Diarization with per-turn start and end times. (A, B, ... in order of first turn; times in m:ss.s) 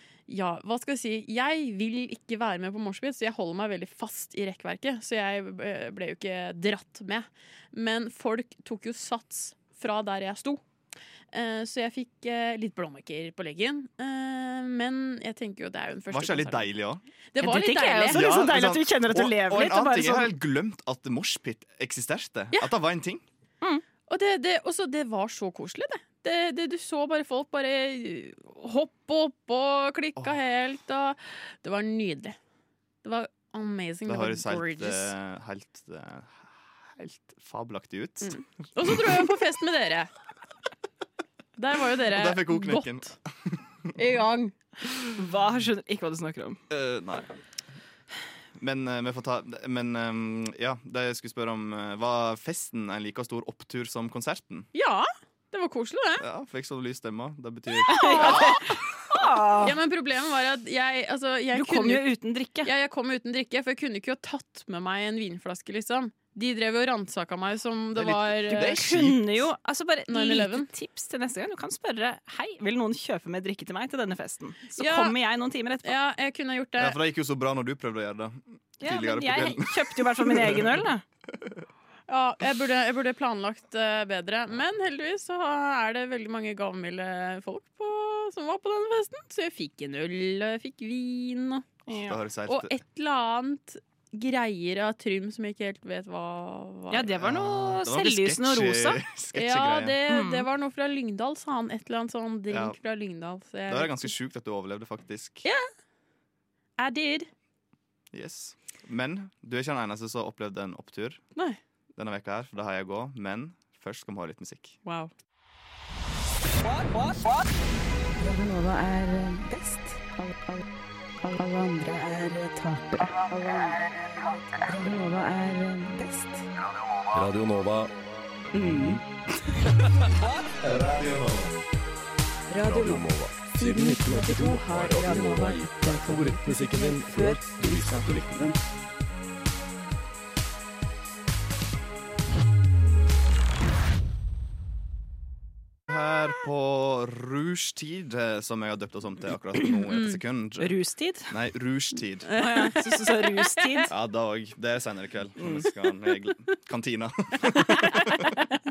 0:00.3-0:10.6 A
0:11.3-0:16.7 A
0:16.1-0:17.0 B
0:17.3-0:18.2 A
0:17.4-0:20.3 C
0:18.1-0:23.2 B
0:24.1-0:32.4 A
0:33.0-0:35.1 A
0:34.0-0:39.2 B
0:38.2-0:40.1 A
0:41.6-0:43.1 A
0:42.1-0:43.9 B
0:43.9-0:44.6 A
0:45.1-0:46.6 C
0:46.7-0:47.3 B
0:48.6-0:54.7 B
0:54.7-0:56.2 A
0:56.2-0:58.7 B
0:57.8-0:59.7 C
0:57.9-0:58.6 A
0:59.6-1:02.1 A
1:01.5-1:02.7 C
1:02.6-1:08.8 A
1:08.0-1:09.4 B
1:08.5-1:15.9 C
1:10.1-1:10.7 A
1:14.8-1:15.1 A
1:15.8-1:17.0 A
1:16.8-1:21.6 B
1:18.8-1:21.0 C
1:22.1-1:31.7 A
1:31.9-1:32.2 C
1:32.0-1:32.8 B
1:32.5-1:37.1 A
1:36.9-1:39.0 C
1:37.2-1:40.0 B
1:39.3-1:44.1 A
1:40.1-1:40.4 C
1:42.5-1:42.8 B
1:43.7-1:45.4 B
1:46.8-1:47.3 A
1:48.1-1:51.2 B
1:51.9-1:54.8 B
1:54.8-1:55.1 A
1:58.1-2:00.6 D
2:01.2-2:06.5 D
2:07.1-2:07.9 E
2:08.5-2:09.0 D
2:08.6-2:09.0 E
2:10.6-2:11.5 B
2:12.5-2:18.6 D
2:12.6-2:18.4 E
2:25.9-2:30.7 B
2:30.6-2:31.3 C
2:31.3-2:32.3 B
2:32.3-2:33.8 A
2:32.4-2:33.9 C
2:33.9-2:38.3 B
2:35.4-2:35.6 C